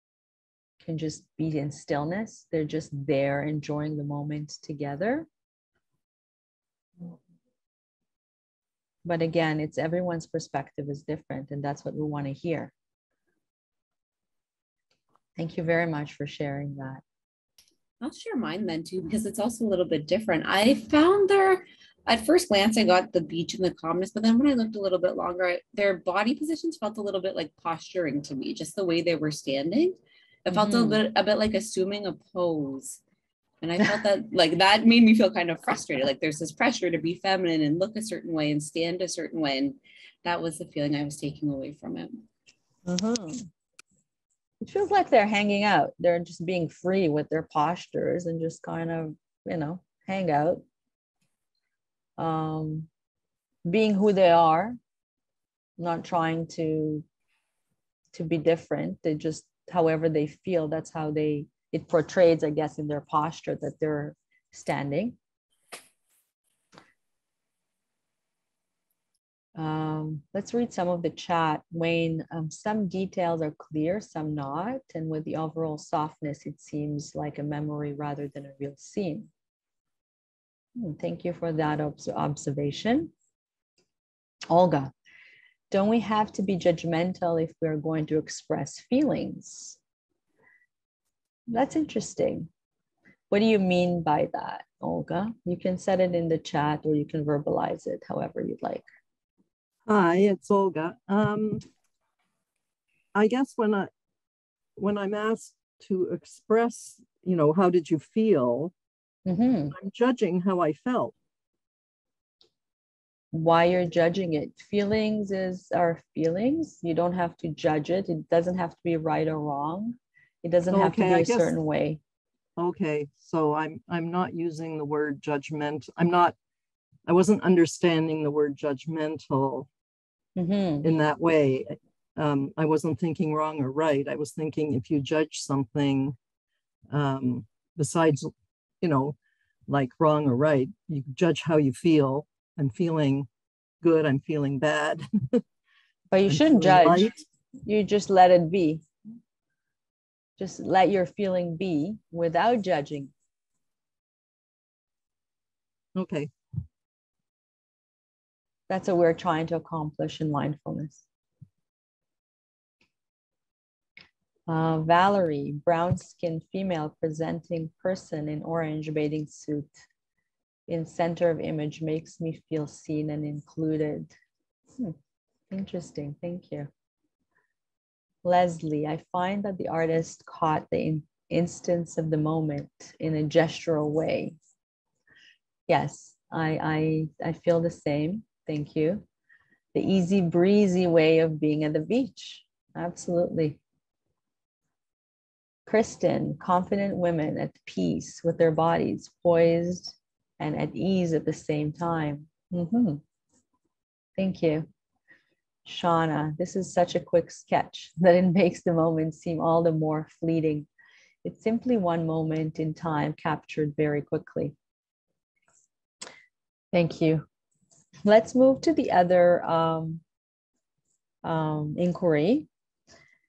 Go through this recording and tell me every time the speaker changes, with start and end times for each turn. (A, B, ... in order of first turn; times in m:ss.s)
0:00.8-0:05.3 A
0:09.0-0:12.7 A
0:15.4-0:17.0 A
0:18.0-0:33.0 B
0:30.5-0:31.0 A
0:33.6-0:42.2 B
0:42.9-0:43.4 A
0:44.6-0:50.6 A
0:52.2-0:52.9 A
0:53.6-0:54.8 A
0:55.8-0:57.0 A
0:58.1-1:05.2 A
1:09.6-1:19.3 A
1:20.8-1:23.1 A
1:24.5-1:24.9 A
1:25.7-1:29.8 A
1:31.5-1:32.5 A
1:33.3-1:38.8 A
1:39.8-1:41.6 C
1:43.1-1:43.9 C
1:44.8-1:48.7 C
1:49.2-1:49.7 A
1:49.7-1:51.1 C
1:53.3-2:02.0 A
2:00.7-2:01.5 C
2:02.6-2:06.4 C
2:07.0-2:09.7 C
2:10.4-2:10.9 A
2:10.8-2:16.2 C
2:16.9-2:19.2 C
2:19.7-2:23.3 C
2:23.8-2:25.4 C
2:26.1-2:27.1 A
2:26.3-2:27.2 C
2:27.6-2:28.8 A
2:30.4-2:33.1 A
2:35.9-2:36.3 C
2:38.7-2:41.0 A
2:44.5-2:49.8 A
2:50.7-2:54.1 A
2:55.5-2:56.7 A
2:58.2-3:04.4 A
3:05.7-3:09.0 A
3:09.7-3:13.6 A
3:15.7-3:23.0 A
3:24.2-3:24.7 A
3:25.6-3:30.7 A
3:31.2-3:34.5 A
3:36.7-3:37.2 A
3:38.0-3:40.0 A
3:41.2-3:42.5 A